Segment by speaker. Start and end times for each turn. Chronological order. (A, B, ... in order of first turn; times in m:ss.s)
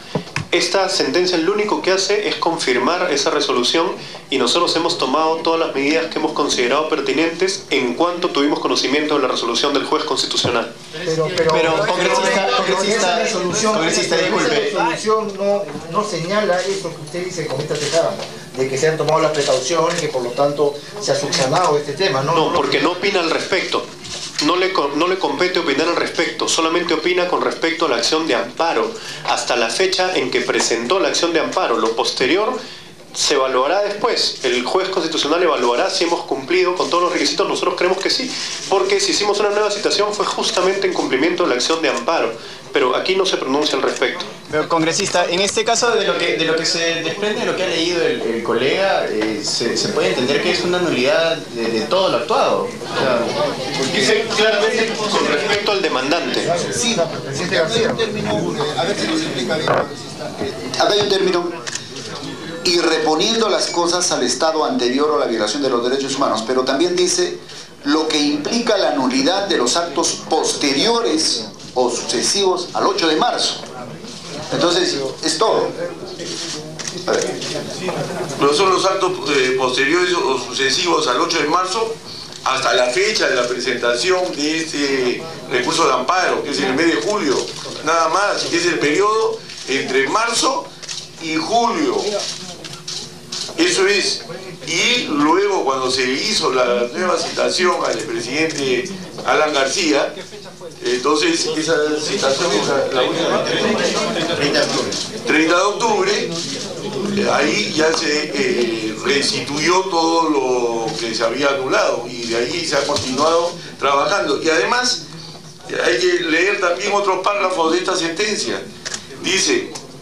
0:00.5-0:10.7 A
0:11.0-0:22.9 B
0:11.5-0:14.8 C
0:22.3-0:23.8 A
0:24.4-0:32.6 A
0:33.1-0:44.2 A
0:44.5-0:53.3 C
0:53.9-0:56.5 A
0:56.5-0:58.6 B
0:56.7-1:01.6 D
1:02.6-1:13.6 D
1:14.5-1:15.7 D
1:18.4-1:30.7 E
1:31.2-1:32.1 E
1:33.6-1:40.1 E
1:40.8-1:46.3 E
1:47.1-1:55.0 E
1:55.7-1:58.6 E
1:59.2-1:59.7 E